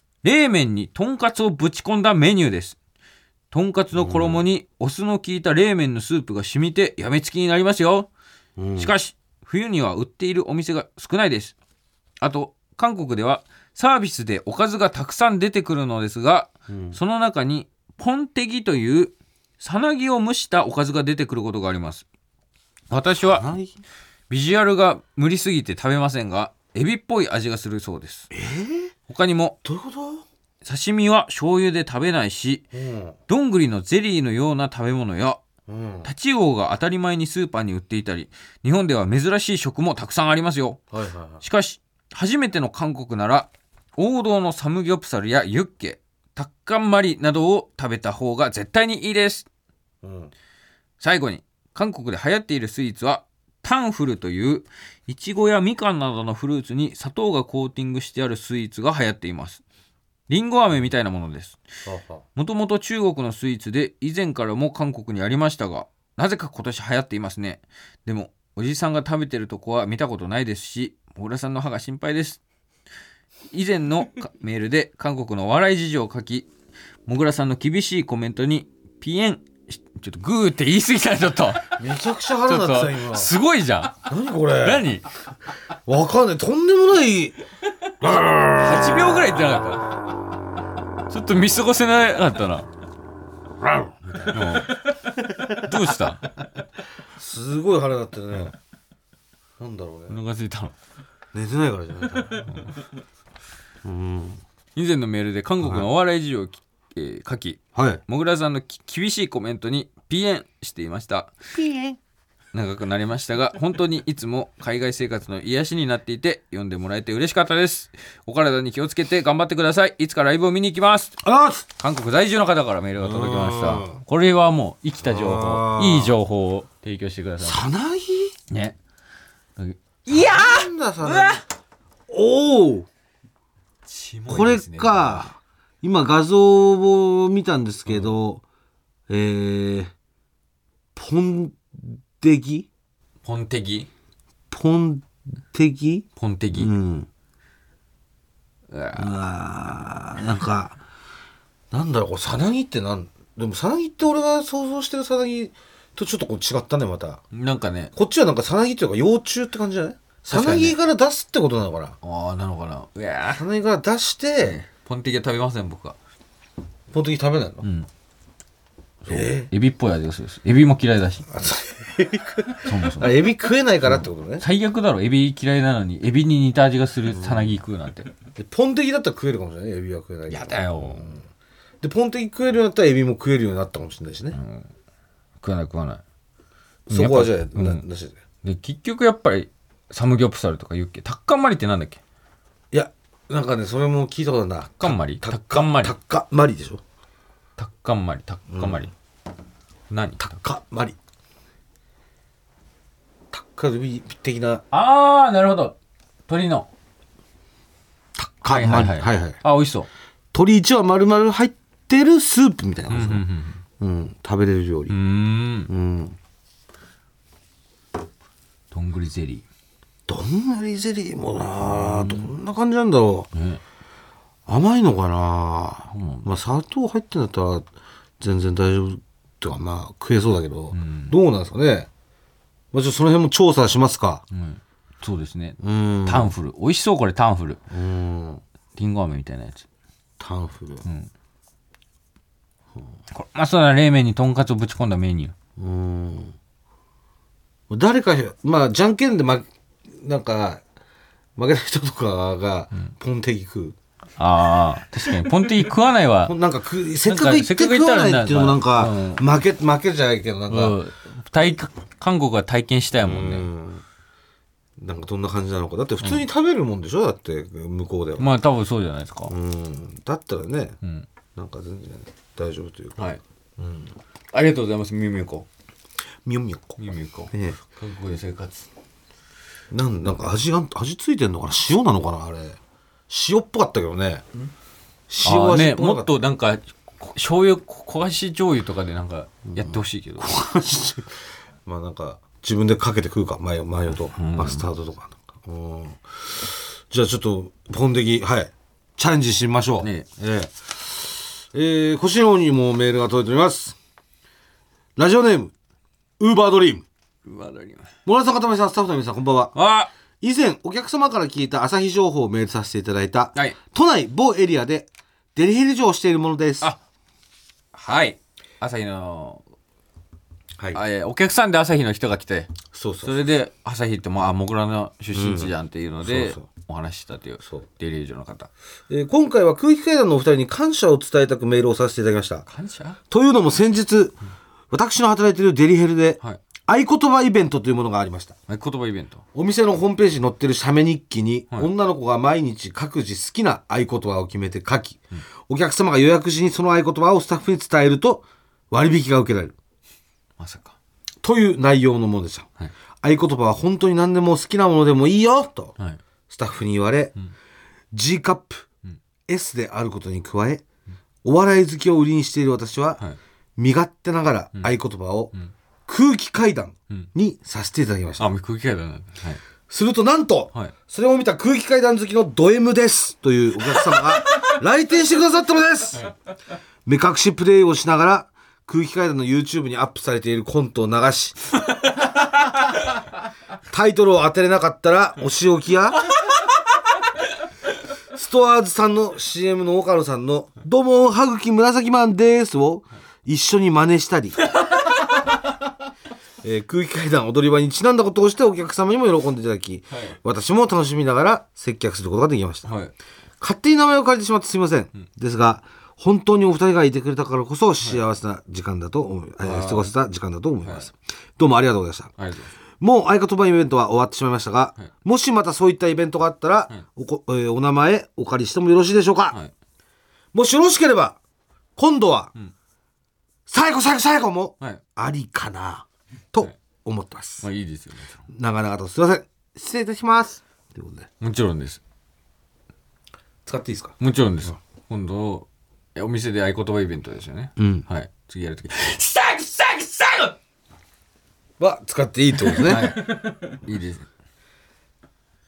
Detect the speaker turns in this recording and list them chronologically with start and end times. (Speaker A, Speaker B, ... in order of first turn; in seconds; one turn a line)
Speaker A: 0.2-2.8
Speaker A: 3.5-8.1
Speaker B: 3.9-4.4
Speaker B: 8.6-8.9
Speaker A: 8.8-11.6
Speaker A: 12.2-22.1
Speaker B: 16.7-17.0
Speaker A: 22.9-23.5
Speaker B: 23.2-23.8
Speaker A: 24.3-28.3
Speaker B: 28.3-28.9
Speaker A: 29.1-29.6
Speaker B: 29.6-30.2
Speaker A: 30.6-32.6
Speaker B: 32.7-33.2
Speaker A: 33.3-35.4
Speaker B: 35.7-36.1
Speaker A: 36.0-40.8
Speaker B: 40.9-41.4
Speaker A: 41.4-49.5
Speaker B: 50.0-50.3
Speaker A: 51.0-59.6
Speaker A: 60.3-61.6
Speaker B: 61.9-62.2
Speaker A: 62.4-72.4
Speaker A: 73.5-76.5
Speaker A: 77.0-81.9
Speaker B: 81.7-83.3
Speaker A: 82.4-85.1
Speaker B: 84.0-84.9
Speaker B: 85.8-87.4
Speaker B: 88.0-89.2
Speaker A: 88.5-89.9
Speaker A: 91.1-92.7
Speaker B: 93.6-94.7
Speaker A: 94.3-96.3
Speaker B: 97.2-98.5
Speaker B: 99.6-100.2
Speaker A: 100.1-100.7
Speaker B: 101.3-102.5
Speaker B: 103.8-104.4
Speaker A: 104.8-111.3
Speaker B: 107.7-108.0
Speaker B: 111.5-112.0
Speaker A: 112.5-121.1
Speaker B: 121.2-121.7
Speaker A: 121.8-127.6
Speaker B: 123.0-124.0
Speaker B: 125.0-126.2
Speaker B: 127.4-128.3
Speaker A: 128.5-128.8
Speaker A: 129.6-131.4
Speaker B: 130.1-131.4
Speaker B: 132.1-132.9
Speaker A: 133.8-135.3
Speaker B: 134.3-138.4
Speaker A: 137.9-138.1
Speaker B: 139.1-139.9
Speaker B: 140.9-142.7
Speaker A: 143.2-143.9
Speaker B: 144.5-147.1
Speaker A: 146.2-146.7
Speaker A: 148.7-149.2
Speaker B: 148.9-150.8
Speaker B: 151.7-157.2
Speaker A: 157.3-157.9
Speaker B: 157.9-161.9
Speaker A: 160.3-160.8
Speaker A: 162.0-163.4
Speaker B: 163.3-164.6
Speaker A: 164.4-166.0
Speaker B: 166.9-167.6
Speaker A: 167.6-167.9
Speaker B: 169.0-169.5
Speaker A: 169.1-171.4
Speaker B: 171.3-174.4
Speaker A: 172.6-173.1
Speaker A: 173.8-178.1
Speaker B: 177.1-177.6
Speaker B: 178.3-181.2
Speaker A: 180.3-181.1
Speaker B: 181.8-184.4
Speaker A: 184.3-184.7
Speaker A: 185.4-186.0
Speaker B: 186.9-188.2
Speaker A: 186.9-187.8
Speaker A: 188.4-192.0
Speaker B: 192.7-196.8
Speaker A: 194.8-195.9
Speaker A: 197.6-198.9
Speaker B: 198.5-198.9
Speaker A: 199.9-200.3
Speaker B: 200.2-201.0
Speaker B: 203.3-204.6
Speaker A: 204.7-205.8
Speaker A: 206.3-206.7
Speaker B: 208.2-209.4
Speaker A: 208.5-209.9
Speaker B: 210.3-213.2
Speaker A: 212.9-213.6
Speaker B: 213.8-214.9
Speaker A: 214.9-215.7
Speaker B: 215.7-216.2
Speaker A: 218.7-219.4
Speaker B: 220.1-223.3
Speaker A: 221.6-222.3
Speaker A: 223.3-223.6
Speaker B: 224.5-227.6
Speaker A: 225.9-226.3
Speaker B: 228.2-231.9
Speaker A: 230.7-231.2
Speaker B: 232.7-234.2
Speaker A: 234.3-237.6
Speaker B: 235.6-236.3
Speaker B: 237.7-238.4
Speaker A: 238.8-239.6
Speaker B: 240.2-240.8
Speaker A: 240.8-241.1
Speaker A: 243.1-245.3
Speaker B: 245.6-246.3
Speaker B: 247.7-250.6
Speaker B: 251.4-253.8
Speaker A: 254.2-256.4
Speaker B: 256.2-260.8
Speaker A: 257.0-259.2
Speaker A: 260.5-263.5
Speaker B: 263.0-263.8
Speaker B: 264.8-268.3
Speaker A: 268.2-269.3
Speaker B: 269.3-270.8
Speaker B: 271.4-273.9
Speaker A: 274.3-275.5
Speaker B: 276.2-276.8
Speaker A: 276.8-278.7
Speaker B: 277.3-277.6
Speaker B: 279.7-282.6
Speaker B: 283.1-284.2
Speaker B: 285.1-286.1
Speaker A: 285.2-290.3
Speaker B: 289.6-303.8
Speaker A: 294.0-294.7
Speaker A: 299.8-300.1
Speaker B: 304.9-305.5
Speaker B: 306.2-306.8
Speaker A: 307.2-307.9
Speaker B: 308.1-309.5
Speaker A: 309.5-309.9
Speaker B: 310.2-316.7
Speaker A: 317.7-319.4
Speaker B: 320.6-320.8
Speaker A: 320.7-328.5
Speaker B: 322.7-323.3
Speaker B: 325.1-326.4
Speaker B: 328.9-332.5
Speaker A: 332.5-333.0
Speaker B: 333.1-334.2
Speaker B: 334.7-338.4
Speaker A: 338.5-339.2
Speaker B: 339.3-349.5
Speaker A: 350.4-350.8
Speaker B: 351.2-352.5
Speaker B: 353.0-355.7
Speaker B: 356.3-357.1
Speaker B: 357.9-358.6
Speaker B: 359.3-360.6
Speaker B: 361.2-363.0
Speaker B: 363.6-365.3
Speaker B: 365.9-368.3
Speaker A: 368.2-369.4
Speaker B: 369.7-376.1
Speaker B: 376.9-381.6
Speaker B: 383.7-386.1
Speaker B: 388.1-394.5
Speaker A: 394.5-394.9
Speaker B: 396.4-402.7
Speaker A: 399.9-400.1
Speaker A: 402.6-402.9
Speaker B: 403.4-412.1
Speaker A: 409.4-409.9
Speaker A: 412.2-412.5
Speaker B: 412.8-419.4
Speaker B: 420.3-421.2
Speaker B: 421.8-422.3
Speaker B: 423.5-427.5
Speaker A: 427.4-428.2
Speaker B: 428.3-431.1
Speaker A: 431.2-431.8
Speaker B: 433.4-434.0
Speaker A: 434.0-440.3
Speaker B: 437.6-437.9
Speaker B: 441.6-443.1
Speaker A: 442.4-444.1